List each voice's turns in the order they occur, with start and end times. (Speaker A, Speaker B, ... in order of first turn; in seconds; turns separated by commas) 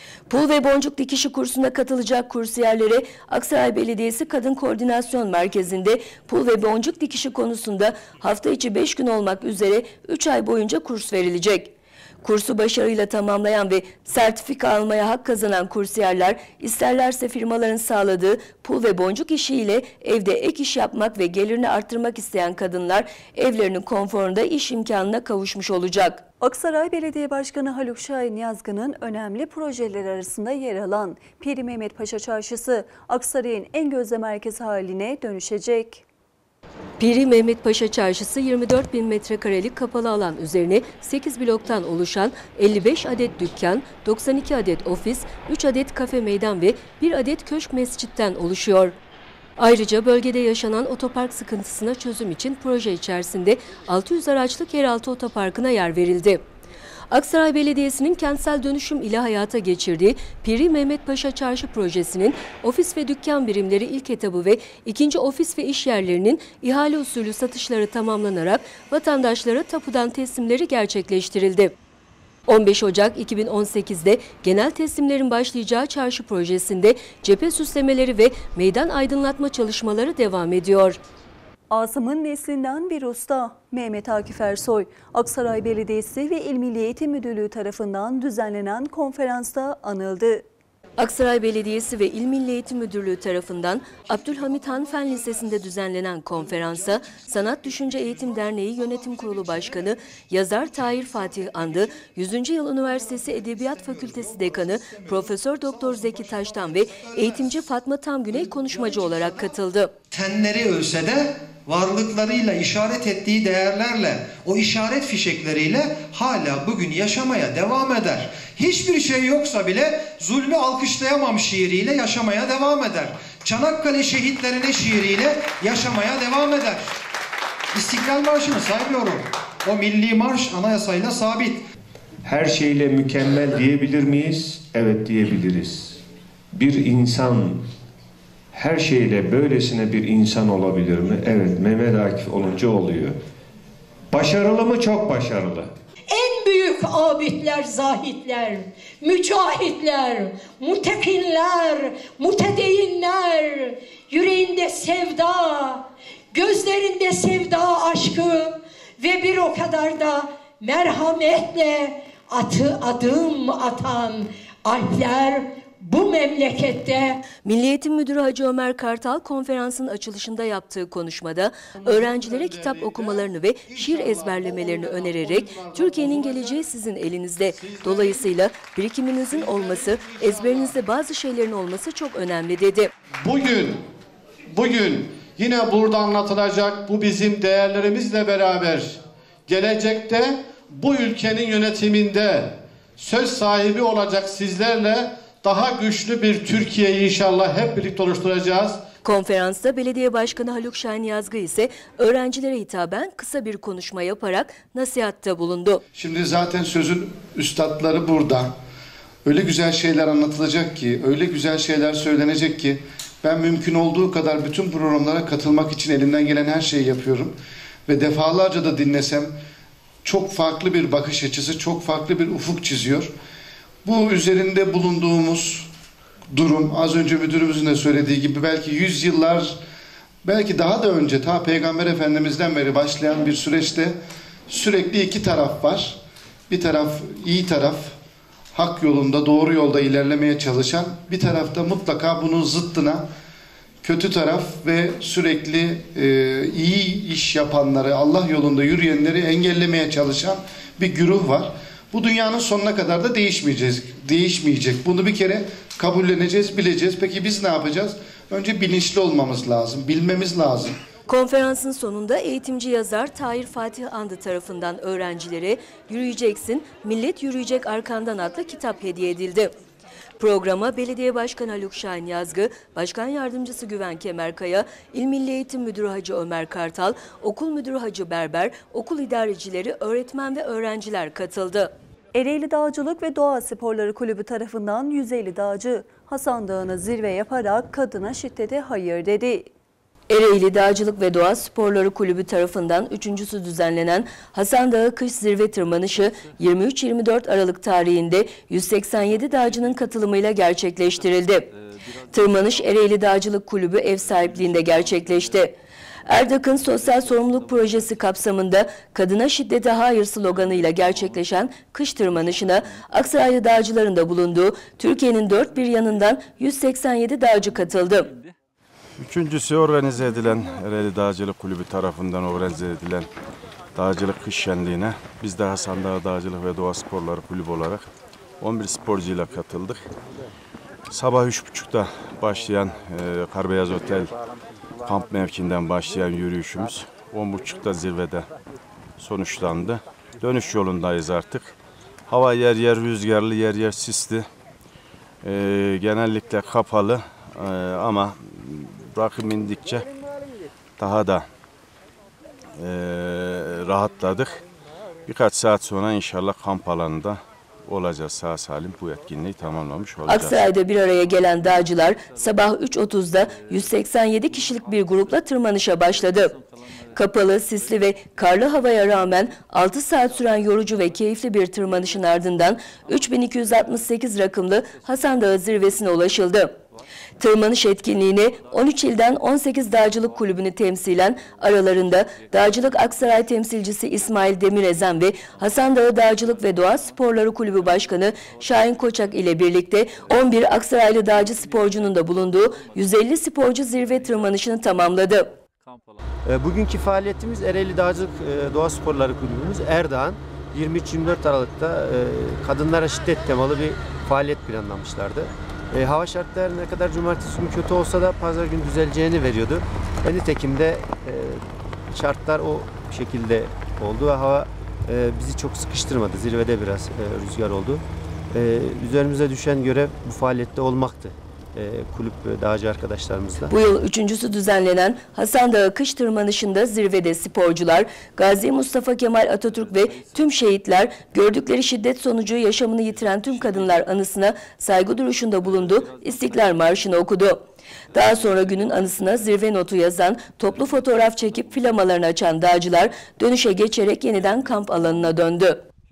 Speaker A: 0.3-26.2, Speaker B: 26.4-36.0, Speaker A: 37.0-49.0, Speaker A: 49.6-56.4, Speaker A: 57.1-71.7, Speaker A: 72.5-81.0, Speaker B: 81.7-90.4, Speaker A: 91.0-109.9, Speaker C: 110.1-126.9, Speaker C: 127.7-131.6, Speaker D: 132.2-136.0, Speaker D: 136.5-137.7, Speaker D: 138.5-143.2, Speaker D: 144.1-145.7, Speaker E: 146.1-167.2, Speaker A: 167.4-182.9, Speaker F: 172.1-173.1, Speaker F: 173.8-176.5, Speaker F: 177.6-178.2, Speaker F: 179.6-180.2, Speaker F: 183.2-183.8, Speaker F: 184.5-198.8, Speaker A: 199.0-205.8, Speaker G: 205.9-208.5, Speaker G: 209.2-217.4, Speaker G: 217.9-219.3, Speaker G: 220.0-223.1, Speaker G: 223.8-225.7, Speaker G: 226.3-229.6, Speaker G: 230.2-236.0, Speaker G: 236.5-237.9, Speaker G: 238.5-243.1, Speaker G: 243.8-260.8, Speaker A: 261.1-269.5, Speaker A: 270.2-281.7, Speaker B: 282.1-289.5, Speaker A: 290.1-301.5, Speaker A: 302.1-305.6, Speaker A: 306.1-318.2, Speaker H: 319.0-323.1, Speaker H: 323.8-327.9, Speaker H: 328.4-329.9, Speaker H: 330.9-334.1, Speaker H: 334.8-338.3, Speaker H: 339.0-341.6, Speaker H: 342.1-344.3, Speaker H: 345.2-349.9, Speaker H: 350.8-351.3, Speaker H: 352.6-354.4, Speaker H: 355.1-360.4, Speaker A: 360.1-366.4, Speaker A: 366.9-376.6, Speaker A: 377.2-395.4, Speaker I: 396.3-423.5, Speaker A: 423.5-445.6